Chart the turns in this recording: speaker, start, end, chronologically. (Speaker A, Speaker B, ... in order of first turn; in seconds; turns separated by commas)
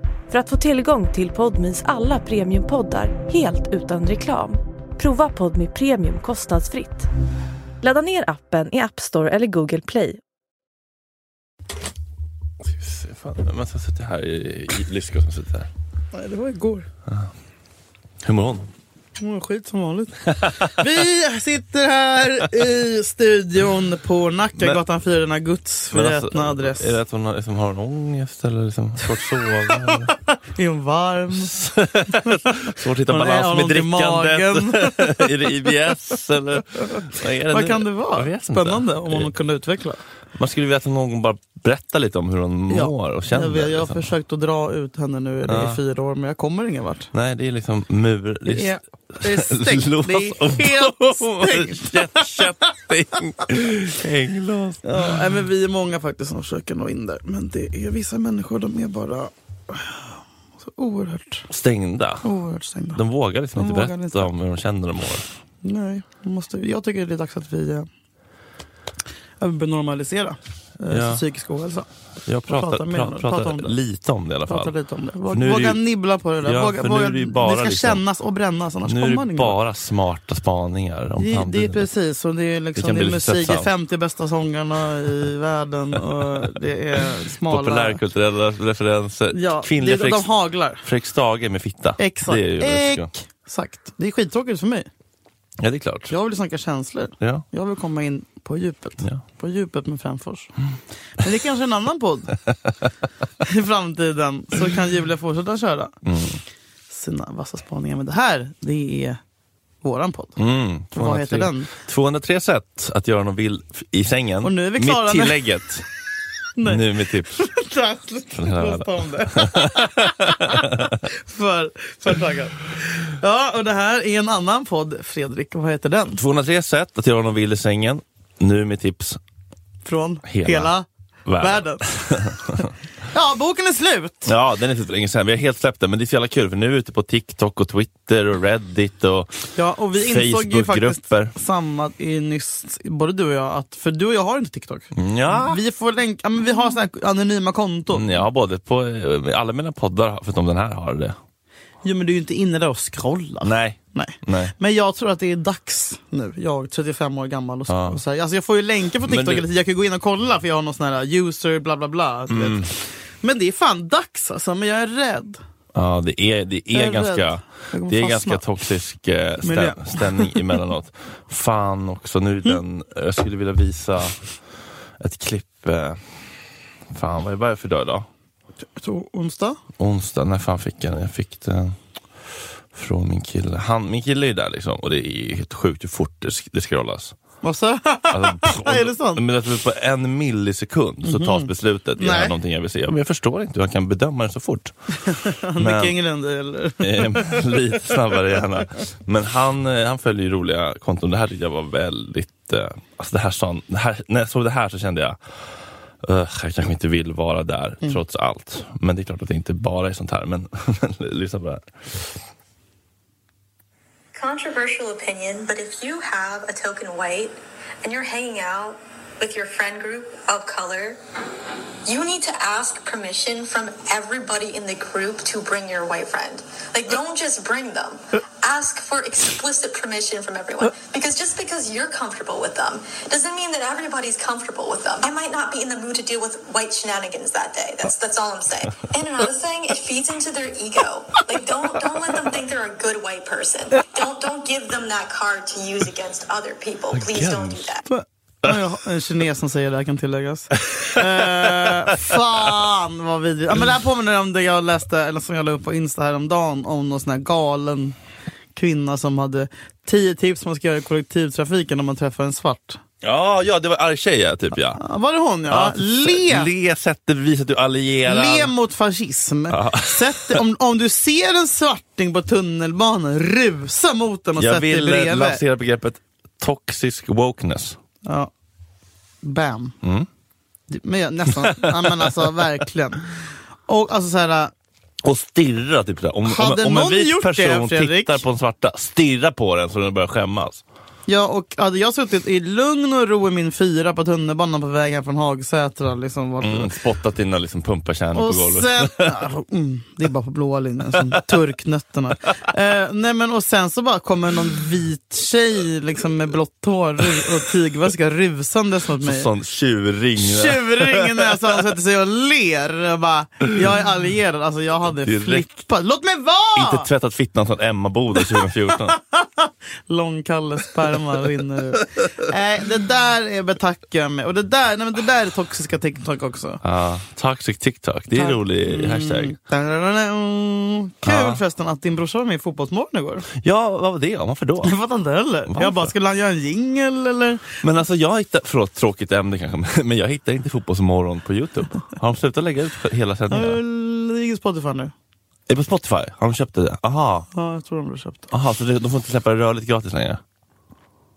Speaker A: 0.3-7.1, Speaker A: 7.8-10.2, Speaker B: 12.6-15.7, Speaker C: 16.1-16.9, Speaker B: 18.2-18.7, Speaker C: 19.2-27.0, Speaker B: 20.2-21.0, Speaker B: 25.9-30.1, Speaker C: 29.2-31.6, Speaker B: 31.3-39.3, Speaker C: 32.1-35.5, Speaker C: 37.5-40.0, Speaker B: 40.4-44.0, Speaker C: 42.7-47.1, Speaker B: 45.5-45.8, Speaker B: 47.1-55.2, Speaker C: 48.5-52.6, Speaker C: 54.8-61.5, Speaker B: 61.5-62.3, Speaker C: 62.2-63.0, Speaker B: 62.9-65.2, Speaker C: 63.5-64.3, Speaker C: 65.6-67.9, Speaker C: 69.4-71.9, Speaker B: 70.9-71.2, Speaker B: 72.2-74.7, Speaker C: 72.5-73.7, Speaker C: 74.5-79.5, Speaker B: 75.3-75.8, Speaker B: 76.4-78.0, Speaker B: 78.8-81.9, Speaker C: 81.2-88.0, Speaker B: 82.8-83.7, Speaker B: 86.0-90.3, Speaker C: 89.3-90.8, Speaker B: 90.8-93.1, Speaker C: 92.0-94.9, Speaker B: 95.6-96.1, Speaker C: 96.1-100.6, Speaker B: 97.2-97.4, Speaker C: 101.2-102.4, Speaker C: 103.4-105.9, Speaker B: 106.0-106.4, Speaker C: 106.9-109.2, Speaker C: 109.8-110.4, Speaker B: 110.4-115.8, Speaker C: 110.9-111.7, Speaker C: 114.4-115.4, Speaker C: 116.5-126.2, Speaker B: 116.6-117.3, Speaker B: 118.3-121.0, Speaker B: 126.1-129.2, Speaker C: 129.8-130.8, Speaker B: 130.2-130.7, Speaker B: 131.2-132.7, Speaker C: 131.4-131.9, Speaker C: 133.1-134.3, Speaker B: 134.2-139.3, Speaker C: 139.5-148.2, Speaker B: 139.9-141.3, Speaker B: 144.9-145.6, Speaker B: 147.9-151.2, Speaker C: 151.8-165.4, Speaker B: 153.4-154.5, Speaker B: 157.7-158.0, Speaker B: 159.0-159.4, Speaker B: 162.3-162.7, Speaker B: 165.7-174.2, Speaker C: 166.7-168.4, Speaker C: 169.4-170.4, Speaker B: 175.0-176.0, Speaker B: 176.9-178.1, Speaker C: 178.8-179.6, Speaker B: 179.8-181.8, Speaker B: 182.7-187.2, Speaker C: 187.4-189.2, Speaker B: 188.1-195.9, Speaker C: 191.0-192.3, Speaker C: 195.1-197.5, Speaker B: 196.8-205.2, Speaker B: 206.0-212.1, Speaker D: 214.1-221.0, Speaker D: 221.8-247.8, Speaker B: 246.9-247.7, Speaker C: 247.8-257.9, Speaker B: 250.7-252.2, Speaker C: 258.5-262.8, Speaker B: 263.0-264.8, Speaker C: 264.8-266.5, Speaker B: 265.5-268.5, Speaker C: 268.1-275.4, Speaker B: 269.5-270.4, Speaker B: 274.4-277.8, Speaker C: 278.0-278.3, Speaker C: 279.2-279.7, Speaker B: 279.8-280.1, Speaker C: 280.7-283.1, Speaker B: 281.4-282.1, Speaker C: 283.7-284.5, Speaker B: 285.0-290.6, Speaker C: 286.2-288.2, Speaker C: 291.1-296.7, Speaker B: 296.4-299.2, Speaker C: 298.1-309.3, Speaker B: 309.0-311.4, Speaker C: 310.2-316.9, Speaker B: 315.0-315.5, Speaker B: 316.6-319.0, Speaker C: 318.7-326.6, Speaker B: 326.6-329.4, Speaker C: 328.1-333.3, Speaker B: 331.0-331.4, Speaker B: 333.3-334.7, Speaker C: 334.6-337.6, Speaker B: 335.5-335.9, Speaker B: 337.6-343.6, Speaker C: 343.3-344.9, Speaker B: 345.5-347.3, Speaker C: 347.3-348.3, Speaker B: 348.3-350.2